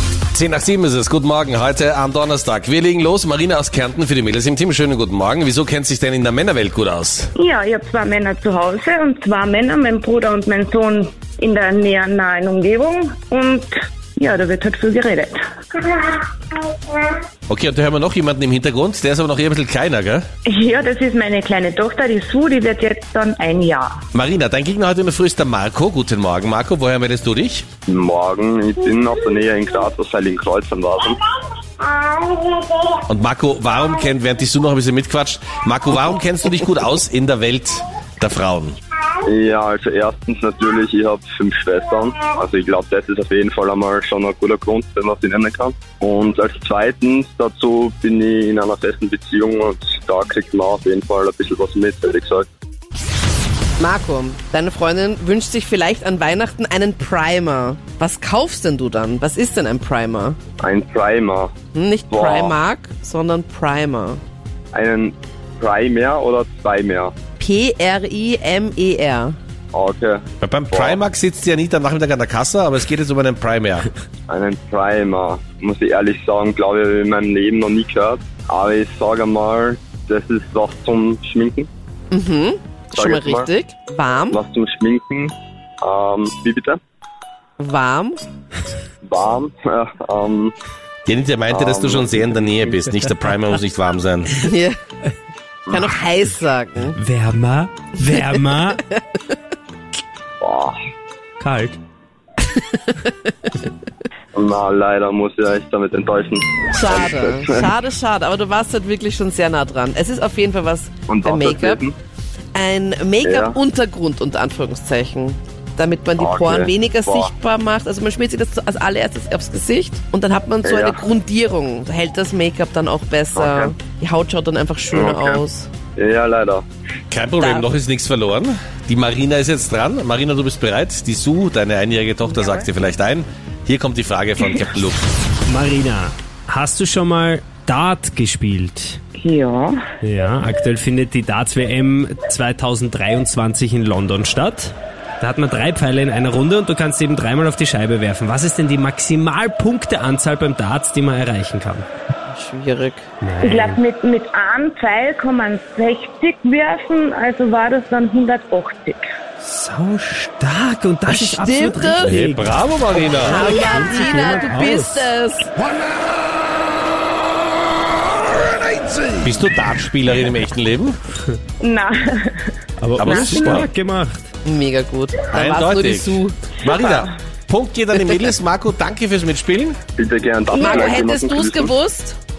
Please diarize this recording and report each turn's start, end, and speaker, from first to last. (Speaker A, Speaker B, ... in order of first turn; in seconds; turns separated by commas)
Speaker A: 0.3-7.3, Speaker B: 7.4-17.1, Speaker A: 17.5-20.2, Speaker B: 20.4-23.9, Speaker A: 24.1-27.6, Speaker C: 27.9-31.2, Speaker A: 33.1-38.8, Speaker C: 39.2-52.5, Speaker D: 53.8-60.4, Speaker C: 60.6-61.5, Speaker D: 61.7-64.2, Speaker C: 62.1-62.6, Speaker C: 64.7-67.1, Speaker D: 67.4-69.3, Speaker C: 69.7-71.0, Speaker A: 70.4-73.9, Speaker C: 74.3-81.7, Speaker D: 82.1-84.4, Speaker C: 83.0-83.5, Speaker C: 84.3-86.8, Speaker D: 87.6-88.2, Speaker C: 89.0-90.5, Speaker A: 91.0-94.3, Speaker C: 91.5-92.5, Speaker D: 94.4-94.8, Speaker C: 95.7-95.9, Speaker D: 95.7-97.0, Speaker E: 96.9-98.8, Speaker D: 98.0-99.3, Speaker C: 100.4-100.8, Speaker E: 101.4-101.8, Speaker D: 102.7-103.5, Speaker C: 104.3-107.7, Speaker D: 106.7-111.8, Speaker C: 111.1-111.9, Speaker D: 112.5-125.7, Speaker C: 113.2-113.6, Speaker C: 116.2-117.3, Speaker C: 120.6-121.0, Speaker C: 123.3-123.7, Speaker C: 124.9-125.4, Speaker C: 126.0-126.7, Speaker A: 127.1-135.0, Speaker D: 127.4-127.7, Speaker E: 135.5-139.0, Speaker B: 139.2-139.8, Speaker E: 140.0-151.9, Speaker D: 152.3-153.1, Speaker E: 153.2-153.8, Speaker B: 153.4-159.0, Speaker E: 159.4-165.1, Speaker D: 161.1-162.2, Speaker A: 162.0-163.4, Speaker D: 163.2-165.5, Speaker A: 169.2-171.0, Speaker B: 171.6-173.6, Speaker E: 172.8-174.2, Speaker A: 173.0-173.7, Speaker D: 174.4-176.4, Speaker A: 175.3-179.8, Speaker C: 180.0-181.7, Speaker D: 180.5-182.2